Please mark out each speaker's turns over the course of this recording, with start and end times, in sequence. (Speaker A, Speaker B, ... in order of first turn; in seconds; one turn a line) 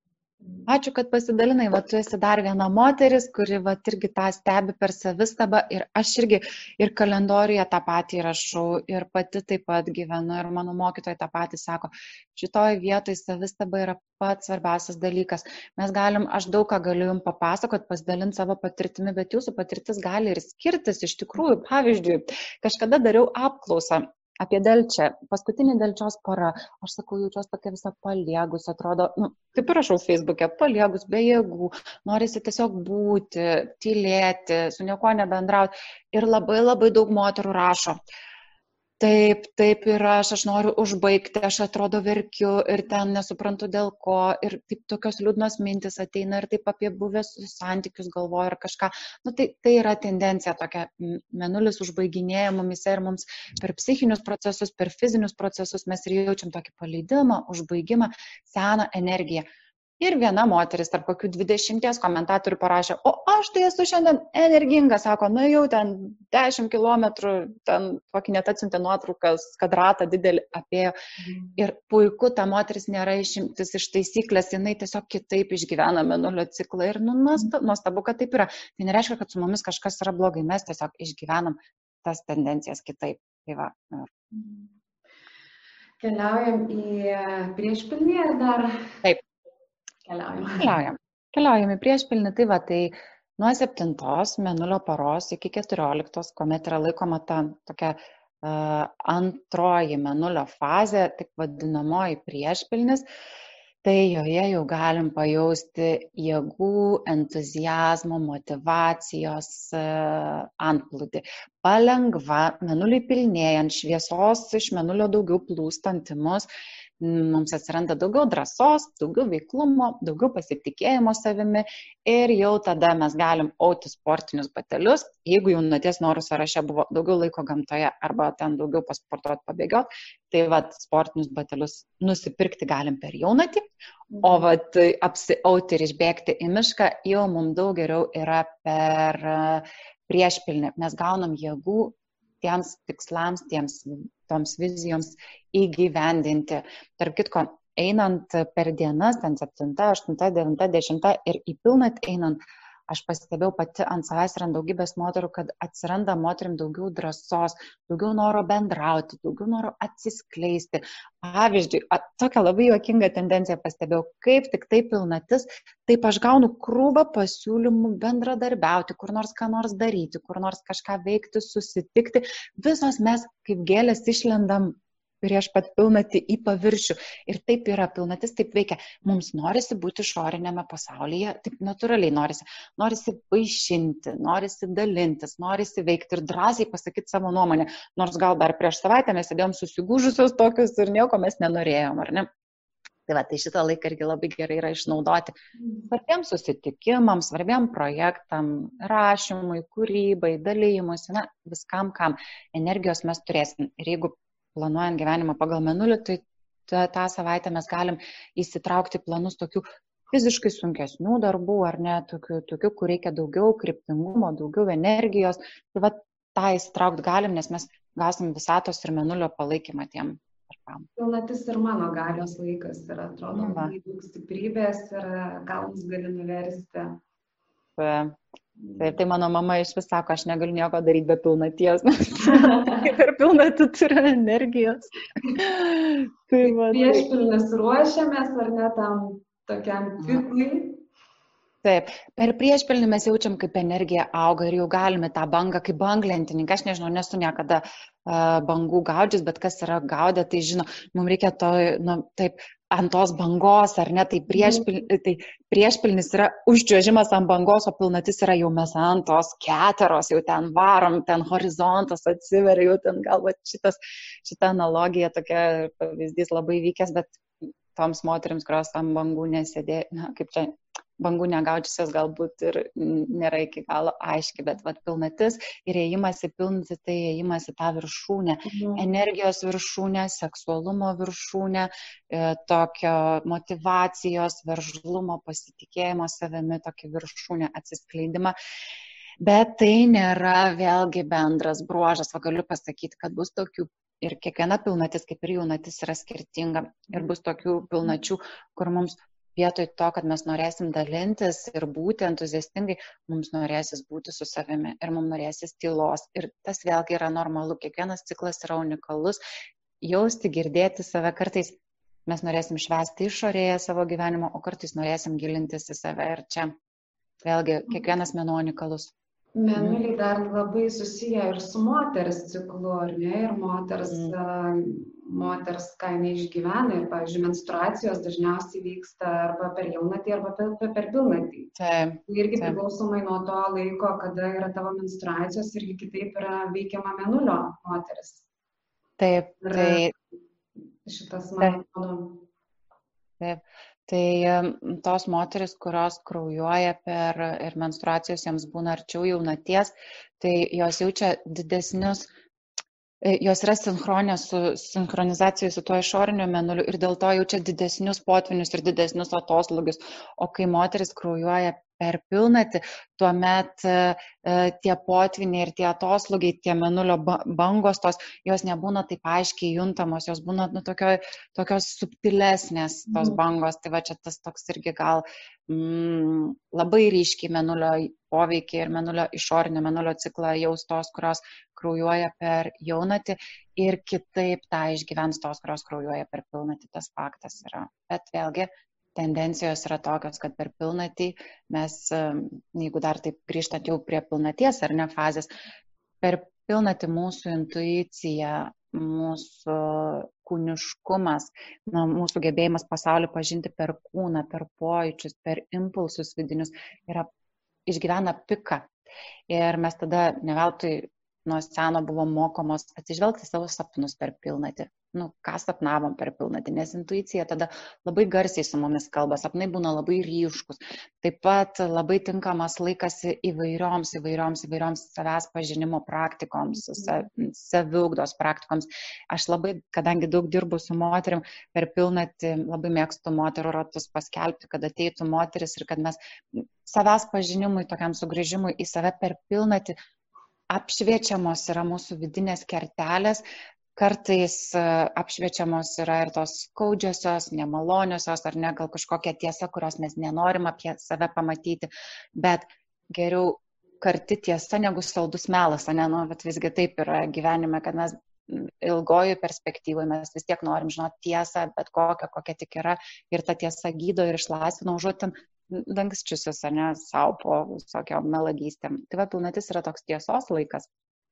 Speaker A: 0.7-38.0
Speaker A: 39.0-59.5
Speaker A: 60.0-71.0
Speaker B: 71.2-71.6
Speaker A: 71.6-84.1
Speaker B: 84.3-84.7
Speaker B: 86.0-88.9
Speaker B: 90.0-90.7
Speaker A: 90.6-103.0
Speaker A: 103.8-116.5
Speaker A: 117.0-133.6
Speaker B: 134.1-134.5
Speaker A: 134.2-152.4
Speaker A: 152.9-192.3
Speaker A: 193.1-195.3
Speaker A: 195.9-220.9
Speaker B: 221.0-227.0
Speaker A: 223.3-223.7
Speaker A: 227.8-228.2
Speaker B: 228.6-229.0
Speaker A: 228.8-237.1
Speaker B: 232.2-232.9
Speaker B: 236.4-240.8
Speaker A: 241.6-267.2
Speaker B: 254.3-254.7
Speaker A: 267.7-288.4
Speaker B: 278.5-278.9
Speaker A: 289.2-309.2
Speaker A: 309.8-316.5
Speaker A: 317.2-318.9
Speaker B: 319.4-331.5
Speaker A: 319.6-319.8
Speaker A: 323.9-324.1
Speaker A: 331.6-332.6
Speaker B: 332.1-338.2
Speaker A: 339.0-339.9
Speaker B: 339.4-339.8
Speaker B: 340.9-342.2
Speaker A: 343.2-352.1
Speaker A: 353.0-395.3
Speaker B: 372.9-373.2
Speaker A: 396.0-407.1
Speaker A: 407.7-408.7
Speaker A: 409.3-439.8
Speaker A: 440.5-443.2
Speaker A: 443.8-470.7